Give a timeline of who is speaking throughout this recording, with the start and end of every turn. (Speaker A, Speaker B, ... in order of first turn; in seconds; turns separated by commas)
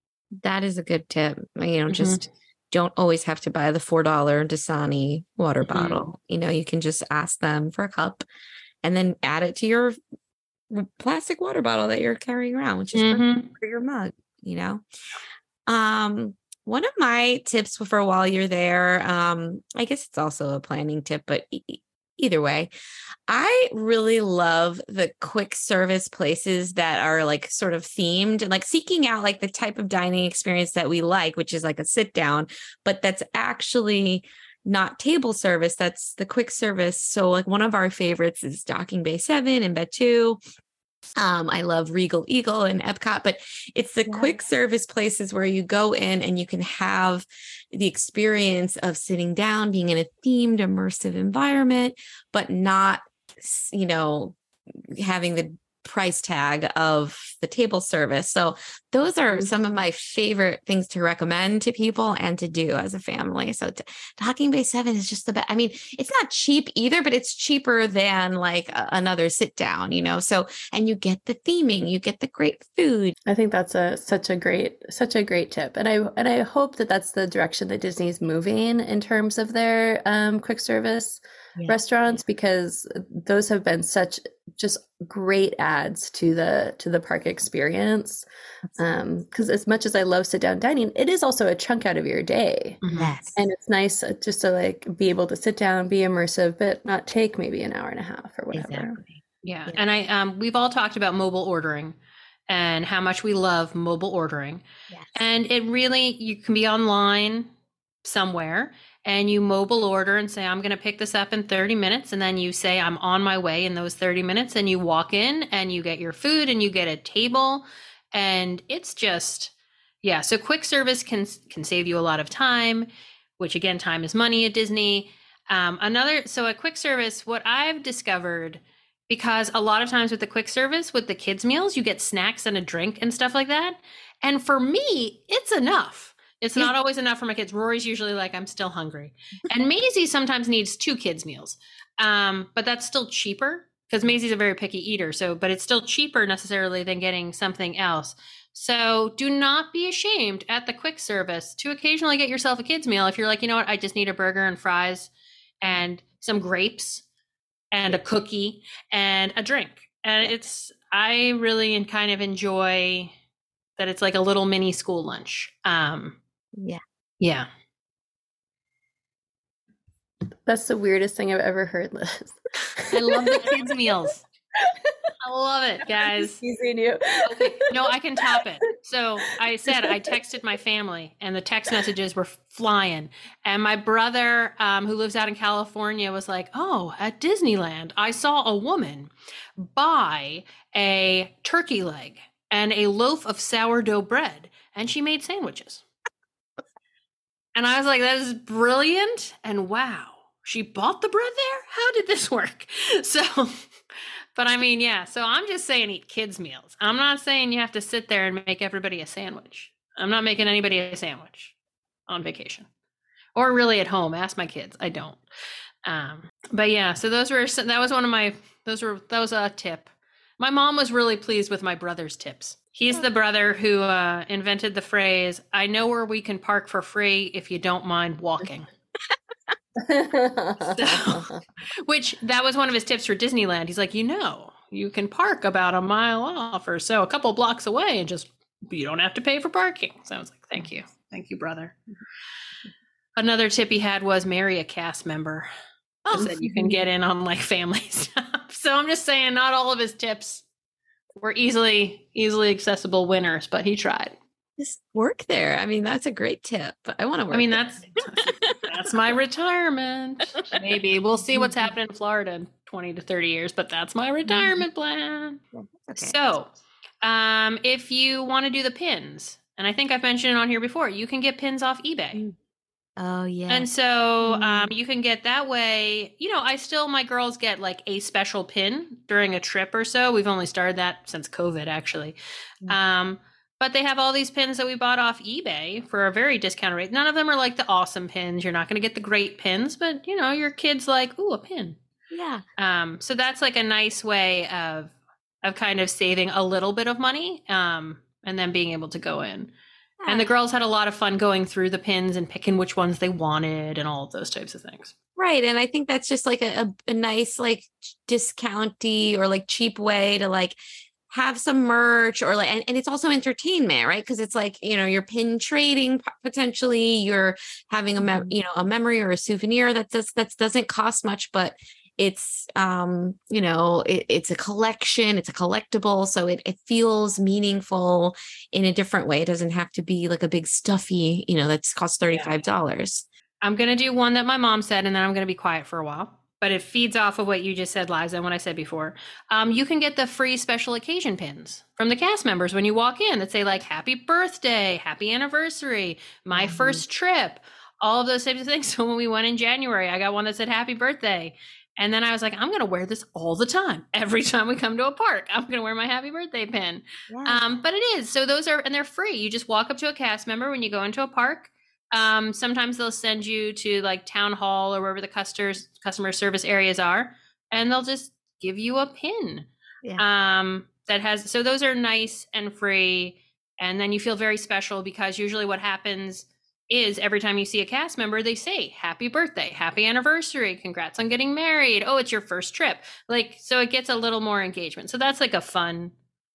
Speaker A: 0.4-8.2, Speaker B: 1.9-2.2, Speaker B: 5.6-6.0, Speaker A: 8.8-10.0, Speaker A: 10.7-14.8, Speaker B: 12.9-13.5, Speaker A: 15.7-22.7, Speaker A: 23.3-40.4, Speaker A: 41.2-73.2, Speaker C: 73.3-88.2, Speaker C: 88.8-92.8, Speaker B: 92.8-93.1, Speaker A: 92.9-93.4, Speaker C: 93.4-99.0, Speaker A: 98.5-99.8, Speaker B: 99.4-102.0, Speaker B: 102.5-104.6, Speaker A: 104.9-105.2, Speaker B: 105.2-107.5, Speaker B: 108.0-157.0, Speaker B: 157.7-163.1, Speaker B: 163.8-166.2, Speaker B: 167.2-167.5, Speaker C: 170.5-173.6, Speaker B: 172.9-174.2, Speaker C: 174.6-174.9, Speaker B: 175.2-176.4, Speaker C: 175.9-178.4, Speaker B: 177.2-195.8, Speaker C: 179.3-180.2, Speaker B: 197.6-203.7, Speaker B: 204.4-211.5, Speaker B: 212.1-212.7, Speaker B: 213.3-215.2, Speaker B: 215.8-228.7, Speaker C: 229.8-231.4, Speaker B: 230.6-241.8, Speaker B: 243.2-245.5, Speaker A: 246.1-246.3, Speaker B: 246.1-250.4, Speaker C: 246.2-246.8, Speaker B: 251.2-254.2, Speaker A: 254.6-257.6, Speaker B: 257.3-265.4, Speaker A: 258.4-258.7, Speaker A: 261.3-261.7, Speaker A: 264.3-264.6, Speaker A: 265.5-266.2, Speaker B: 265.9-266.5, Speaker B: 267.0-272.2, Speaker A: 273.0-273.7, Speaker B: 273.5-282.2, Speaker A: 274.2-274.7, Speaker B: 282.7-291.8, Speaker A: 292.1-292.4, Speaker B: 292.6-299.5, Speaker A: 300.0-300.3, Speaker B: 300.1-304.9, Speaker A: 305.2-310.6, Speaker A: 311.1-333.1, Speaker B: 318.0-318.3, Speaker B: 333.4-385.9, Speaker A: 346.3-346.8, Speaker A: 357.1-357.5